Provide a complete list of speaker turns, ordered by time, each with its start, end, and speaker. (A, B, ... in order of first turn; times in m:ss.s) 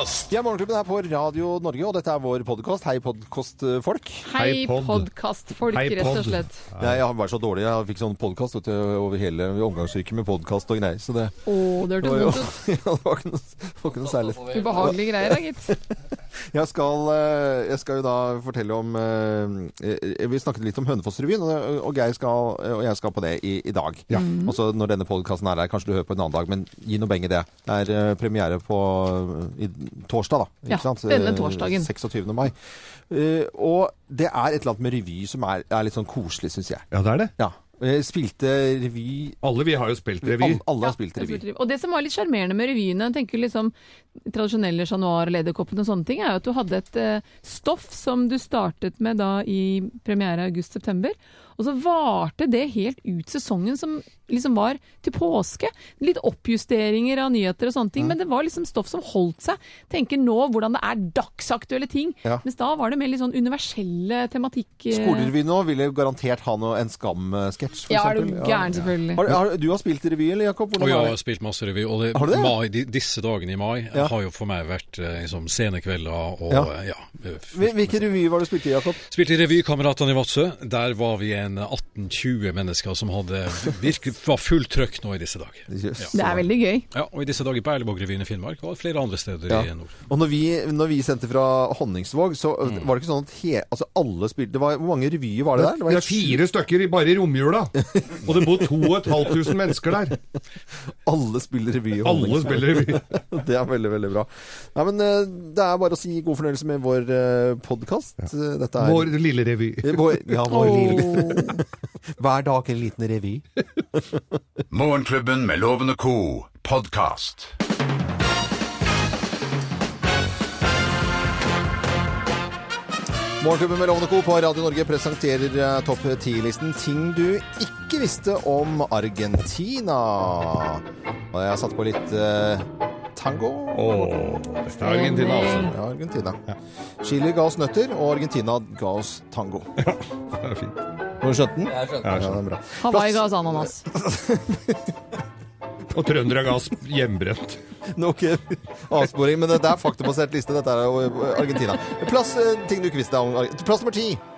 0:00.3-0:04.3 A
0:04.2-0:06.6 B
0:04.4-0:05.1 C
0:05.7-0:07.0 C
0:06.8-0:15.9 A
0:11.4-0:12.5 B
0:14.4-0:15.7 B
0:16.5-0:32.6 A
0:24.1-0:24.6 B
0:30.7-0:31.9 B
0:33.1-0:39.4 A
0:36.9-0:37.3 C
0:39.4-0:40.6 C
0:40.2-0:41.4 A
0:40.8-0:43.7 B
0:44.3-1:05.3 B
1:04.9-1:11.2 A
1:07.9-1:09.2 B
1:10.8-1:18.0 D
1:12.1-1:12.6 A
1:17.5-1:19.0 A
1:19.1-1:26.1 D
1:25.7-1:26.4 A
1:26.1-1:26.9 B
1:26.9-1:29.9 D
1:29.5-1:36.4 A
1:35.6-1:40.2 C
1:37.8-1:39.3 A
1:41.0-1:49.1 A
1:42.0-1:43.1 C
1:48.8-1:50.9 C
1:49.8-1:51.6 A
1:50.5-1:51.6 B
1:52.2-1:53.4 A
1:54.7-1:57.5 E
2:03.4-2:14.1 A
2:13.7-2:15.7 C
2:14.8-2:15.7 B
2:15.4-2:16.4 A
2:17.0-2:19.7 A
2:19.8-2:20.8 C
2:21.2-2:24.9 A
2:21.9-2:22.4 C
2:22.8-2:23.8 B
2:25.9-2:27.6 C
2:27.9-2:34.2 A